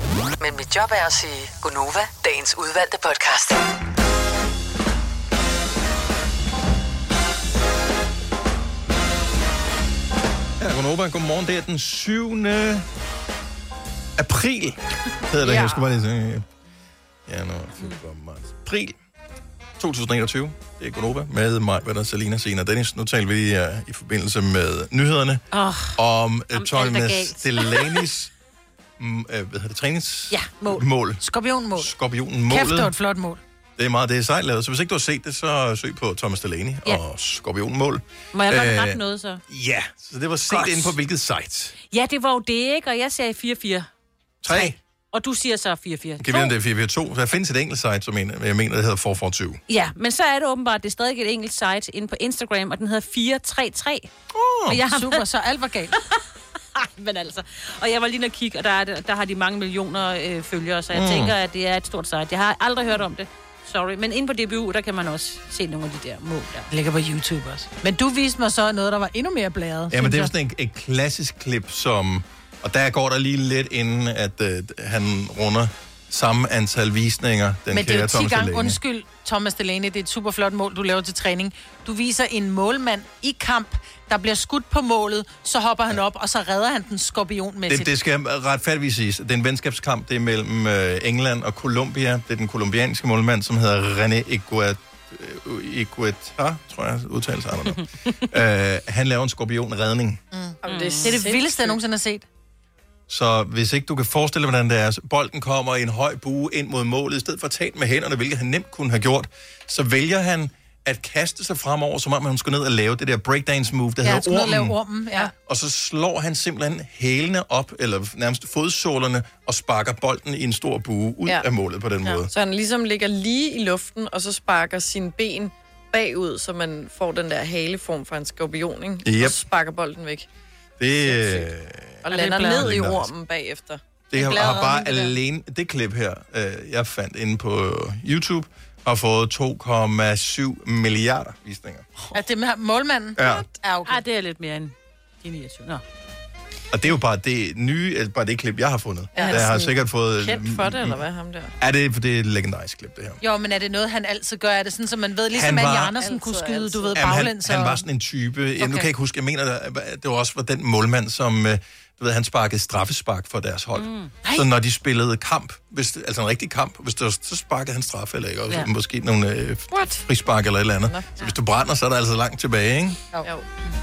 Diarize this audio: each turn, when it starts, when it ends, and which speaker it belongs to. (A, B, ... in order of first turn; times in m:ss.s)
0:00.4-0:03.6 A
0:10.6-0:12.9 B
0:14.2-0:16.4 B
0:15.4-0:15.8 C
0:17.3-0:19.0 B
0:19.8-0:25.4 B
0:25.5-0:26.0 D
0:25.9-0:28.3 B
0:26.5-0:28.0 D
0:29.0-0:31.2 B
0:30.6-0:31.9 E
0:31.8-0:32.9 B
0:32.5-0:33.4 E
0:33.8-0:41.8 B
0:38.3-0:39.4 D
0:40.5-0:40.9 D
0:41.9-0:43.9 D
0:44.4-0:44.8 B
0:44.4-0:46.5 D
0:46.2-0:49.6 B
0:49.7-0:54.1 D
0:54.3-0:54.8 B
0:54.7-0:55.2 D
0:54.8-0:56.0 E
0:56.0-0:56.2 D
0:56.7-1:06.7 D
1:00.9-1:01.4 B
1:06.7-1:10.3 E
1:09.9-1:18.8 B
1:17.7-1:27.9 E
1:27.7-1:40.2 B
1:40.3-1:42.2 E
1:40.6-1:41.8 C
1:40.6-1:41.2 D
1:43.1-1:54.8 B
1:54.0-1:55.3 E
1:55.4-2:02.3 B
2:02.3-2:10.3 C
2:09.0-2:09.4 B
2:10.8-2:13.1 B
2:11.0-2:11.5 C
2:12.0-2:13.8 C
2:12.1-2:12.6 E
2:14.1-2:21.9 B
2:14.1-2:15.2 E
2:22.1-2:24.0 E
2:23.2-2:23.5 B
2:23.8-2:25.8 D
2:26.7-2:31.0 B
2:29.1-2:31.5 C
2:29.2-2:29.7 E
2:31.6-2:33.2 B
2:33.2-2:37.8 E
2:35.3-2:36.0 B
2:35.9-2:37.2 C
2:36.9-2:53.0 B
2:38.6-2:38.9 E
2:43.7-2:44.2 D
2:49.7-2:50.0 C